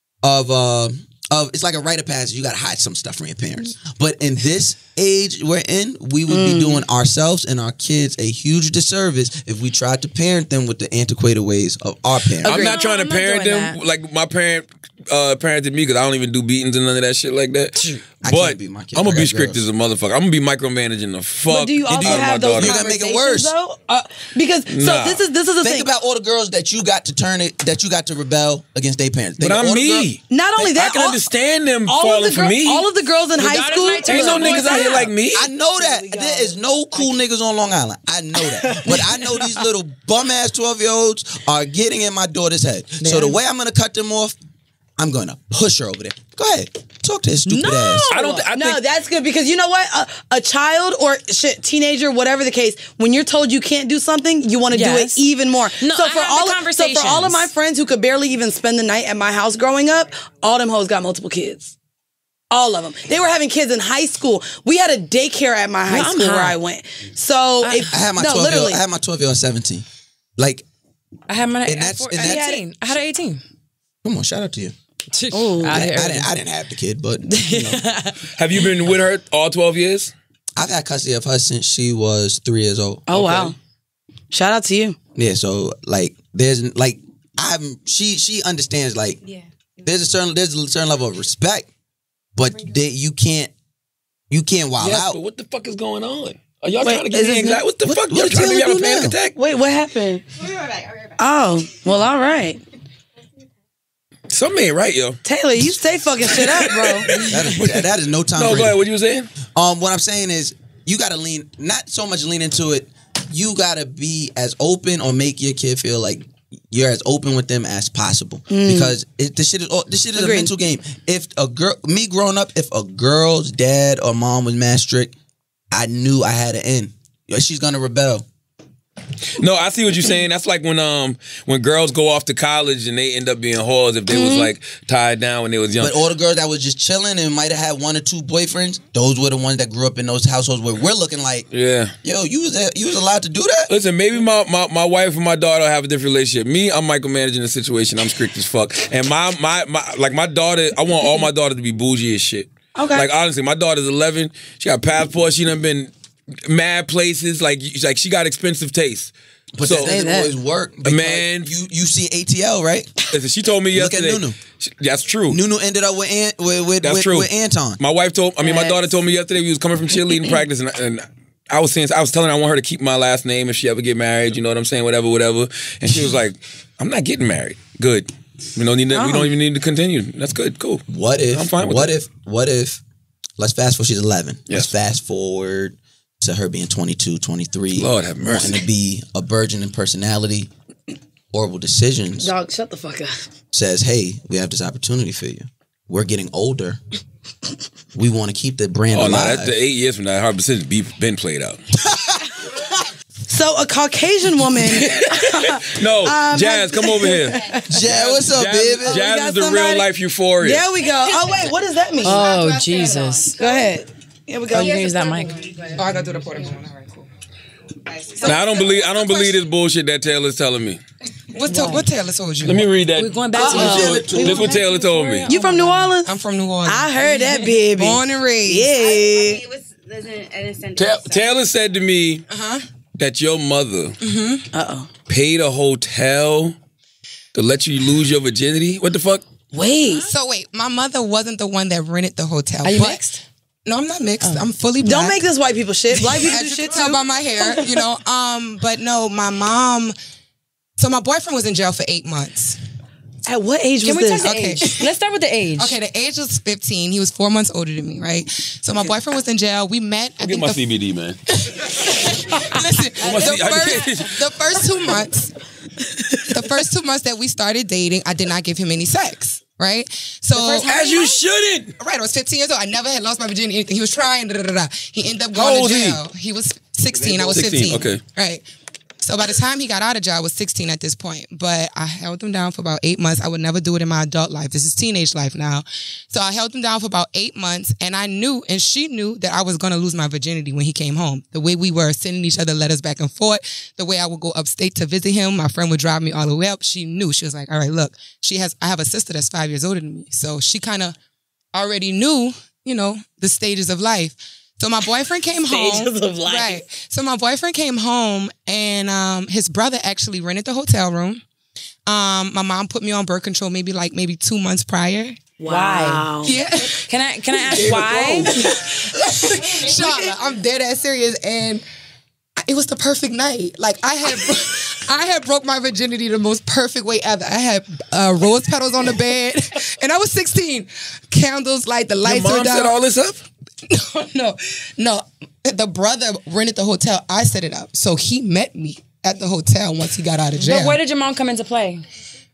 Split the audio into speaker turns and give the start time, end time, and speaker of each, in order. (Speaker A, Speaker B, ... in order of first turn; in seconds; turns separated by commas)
Speaker A: 0.2-12.7, Speaker B: 6.3-6.8, Speaker C: 12.4-22.8, Speaker D: 12.4-13.8, Speaker D: 17.8-18.0, Speaker A: 18.2-19.6, Speaker B: 21.5-25.9, Speaker A: 22.0-23.5, Speaker C: 24.7-25.2, Speaker A: 25.6-30.7, Speaker C: 29.4-30.2, Speaker B: 30.3-31.2, Speaker C: 30.8-32.9, Speaker B: 31.9-37.1, Speaker D: 33.4-35.1, Speaker C: 34.0-35.5, Speaker A: 35.3-44.4, Speaker B: 38.6-39.5, Speaker D: 43.0-43.4, Speaker A: 45.0-48.1, Speaker D: 47.5-48.4, Speaker B: 47.6-61.7, Speaker C: 48.1-48.8, Speaker D: 54.7-55.2, Speaker D: 55.8-57.5, Speaker B: 62.5-68.8, Speaker D: 65.9-66.6, Speaker D: 67.6-67.9, Speaker A: 67.9-69.8, Speaker A: 70.4-70.7, Speaker D: 71.3-73.4, Speaker A: 71.7-72.5, Speaker B: 72.2-72.6, Speaker A: 74.0-74.7, Speaker D: 75.1-76.3, Speaker B: 75.3-75.9, Speaker A: 75.7-77.8, Speaker D: 77.3-78.2, Speaker C: 78.4-80.1, Speaker A: 80.6-83.2, Speaker B: 83.1-83.5, Speaker C: 83.1-83.5, Speaker B: 84.3-85.0, Speaker A: 85.2-89.2, Speaker A: 89.8-91.7, Speaker A: 92.4-93.5, Speaker A: 94.3-95.2, Speaker C: 94.8-99.3, Speaker B: 96.8-97.6, Speaker A: 97.8-99.2, Speaker B: 99.4-100.2, Speaker E: 100.4-101.2, Speaker B: 101.2-102.6, Speaker C: 104.3-105.2, Speaker B: 105.3-107.3, Speaker C: 106.2-107.8, Speaker A: 107.2-108.8, Speaker C: 108.4-109.3, Speaker A: 109.5-125.1, Speaker B: 118.5-119.0, Speaker B: 120.2-120.5, Speaker A: 125.7-128.2, Speaker C: 129.4-136.0, Speaker B: 134.1-134.5, Speaker A: 135.8-141.5, Speaker C: 141.5-141.9, Speaker A: 142.0-143.7, Speaker C: 143.7-155.9, Speaker B: 152.8-153.1, Speaker C: 156.4-159.9, Speaker A: 159.6-162.9, Speaker B: 159.8-160.3, Speaker C: 160.8-161.5, Speaker C: 163.1-165.4, Speaker A: 163.7-164.4, Speaker A: 165.3-167.8, Speaker C: 166.8-181.9, Speaker B: 168.5-168.7, Speaker D: 168.5-168.8, Speaker B: 178.9-179.3, Speaker A: 180.9-182.8, Speaker A: 183.4-190.5, Speaker C: 187.7-188.6, Speaker A: 191.3-192.3, Speaker B: 192.2-193.3, Speaker A: 193.5-196.8, Speaker A: 197.9-199.6, Speaker C: 198.9-201.6, Speaker A: 201.8-202.3, Speaker B: 203.3-207.7, Speaker C: 204.6-210.7, Speaker A: 207.7-209.0, Speaker B: 208.9-209.9, Speaker B: 210.4-212.3, Speaker E: 210.8-213.7, Speaker D: 212.0-213.4, Speaker B: 213.4-215.1, Speaker D: 214.5-215.4, Speaker E: 214.5-216.6, Speaker F: 215.7-217.0, Speaker E: 217.9-218.9, Speaker B: 218.2-219.4, Speaker C: 218.2-220.8, Speaker F: 221.3-222.7, Speaker D: 221.5-221.9, Speaker C: 222.4-225.3, Speaker D: 223.0-224.1, Speaker B: 223.3-224.6, Speaker A: 223.4-224.5, Speaker F: 224.5-228.7, Speaker B: 225.3-226.1, Speaker B: 226.7-229.4, Speaker E: 228.7-231.3, Speaker C: 230.8-232.3, Speaker F: 232.3-232.7, Speaker C: 233.0-234.0, Speaker F: 234.0-234.4, Speaker B: 234.5-234.9, Speaker C: 235.1-236.6, Speaker C: 237.3-239.3, Speaker B: 239.5-240.1, Speaker F: 240.0-245.2, Speaker D: 242.6-243.2, Speaker D: 244.2-244.5, Speaker B: 244.8-247.8, Speaker F: 245.9-249.9, Speaker F: 250.8-252.6, Speaker B: 253.3-254.8, Speaker D: 253.8-255.7, Speaker F: 254.2-254.7, Speaker F: 255.6-260.6, Speaker C: 260.2-261.2, Speaker F: 261.3-265.3, Speaker C: 263.0-264.3, Speaker F: 266.2-270.8, Speaker C: 270.4-271.7, Speaker F: 271.8-278.4, Speaker C: 275.3-276.0, Speaker A: 276.9-277.9, Speaker C: 277.3-278.0, Speaker F: 279.0-300.9, Speaker F: 301.6-311.2, Speaker B: 305.5-306.6, Speaker F: 311.9-315.3, Speaker B: 315.4-316.4, Speaker D: 315.5-318.3, Speaker F: 316.2-316.9, Speaker A: 317.5-318.5, Speaker B: 318.3-320.1, Speaker F: 319.0-321.6, Speaker F: 322.4-332.8, Speaker C: 332.0-333.2, Speaker F: 333.7-340.8, Speaker D: 340.4-341.9